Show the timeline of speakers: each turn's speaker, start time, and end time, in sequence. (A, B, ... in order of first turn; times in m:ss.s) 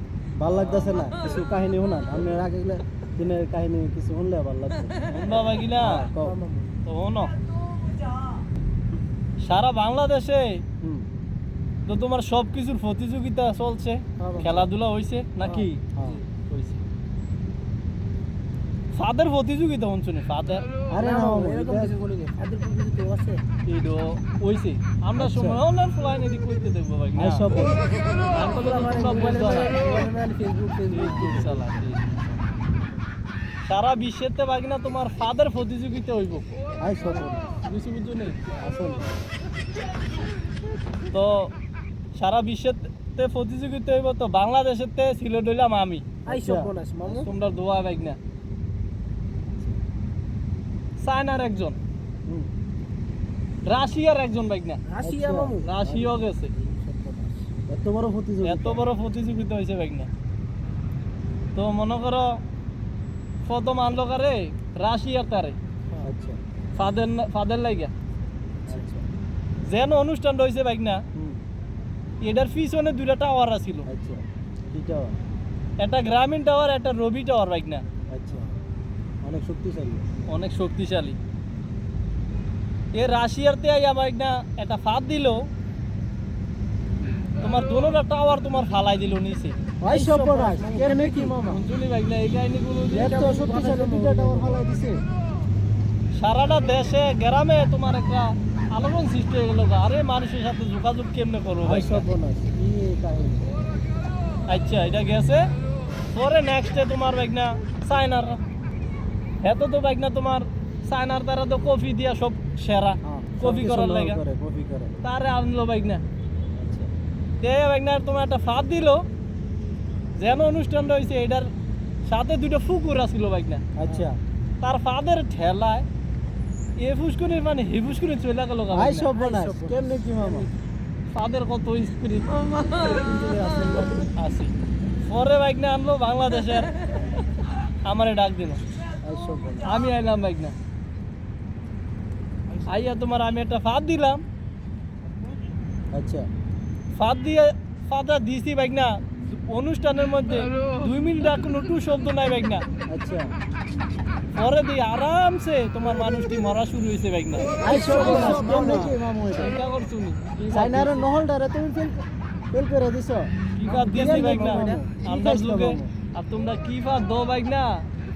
0:00.4-0:05.0 A
0:00.5-0:01.1 B
0:05.1-0:06.1 B
0:05.8-0:06.3 A
0:06.2-0:06.7 C
0:06.8-0:07.3 B
0:09.4-0:10.6 B
0:10.8-0:11.1 A
0:11.9-0:15.8 B
0:14.2-0:14.7 C
0:15.4-0:16.2 C
0:15.9-0:16.2 A
0:16.5-0:16.8 B
0:18.9-0:20.6 B
0:20.9-0:21.9 A
0:21.0-0:23.4 C
0:23.6-0:27.5 B
0:25.2-0:25.6 A
0:27.2-0:27.8 A
0:28.2-0:29.8 B
0:28.3-0:31.6 C
0:30.9-0:32.2 B
0:33.7-0:36.4 B
0:36.8-0:37.5 A
0:37.6-0:38.4 B
0:38.5-0:39.1 A
0:41.1-0:41.5 B
0:42.1-0:46.0 B
0:46.3-0:47.2 A
0:46.3-0:47.3 C
0:47.2-0:48.2 B
0:51.0-0:51.8 B
0:53.6-0:54.8 B
0:54.8-0:55.7 C
0:55.0-0:56.2 A
0:55.6-0:56.5 B
0:56.5-0:57.5 C
0:57.7-0:58.9 A
0:58.4-1:00.1 B
1:01.5-1:02.4 B
1:03.4-1:05.6 B
1:06.0-1:06.4 A
1:06.8-1:07.9 B
1:08.7-1:09.0 A
1:09.6-1:11.0 B
1:11.1-1:11.4 A
1:12.2-1:13.9 B
1:13.8-1:15.2 A
1:15.8-1:17.8 B
1:18.1-1:18.5 A
1:19.2-1:20.1 A
1:20.3-1:21.2 B
1:22.9-1:25.4 B
1:27.4-1:29.6 B
1:29.8-1:31.4 A
1:29.9-1:31.6 C
1:31.5-1:33.2 B
1:32.9-1:35.0 A
1:32.9-1:34.6 C
1:36.1-1:42.1 B
1:41.6-1:43.6 A
1:44.5-1:45.4 B
1:46.1-1:48.4 B
1:49.4-1:54.2 B
1:53.0-1:54.9 A
1:55.0-1:56.0 B
1:56.5-1:56.9 A
1:57.4-1:59.0 B
2:00.1-2:01.5 B
2:02.0-2:03.6 B
2:03.8-2:04.2 A
2:04.6-2:05.8 B
2:06.8-2:09.1 B
2:08.7-2:10.5 A
2:09.1-2:10.5 C
2:11.1-2:12.5 B
2:12.6-2:14.1 C
2:14.2-2:16.7 B
2:17.8-2:18.6 B
2:19.0-2:19.8 A
2:19.6-2:20.5 B
2:22.6-2:24.2 B
2:25.9-2:26.2 A
2:26.9-2:32.6 B
2:32.9-2:33.3 A
2:34.3-2:38.6 B
2:37.6-2:38.9 C
2:37.6-2:39.5 A
2:39.4-2:41.0 B
2:40.5-2:45.9 A
2:43.6-2:47.8 B
2:43.7-2:44.8 C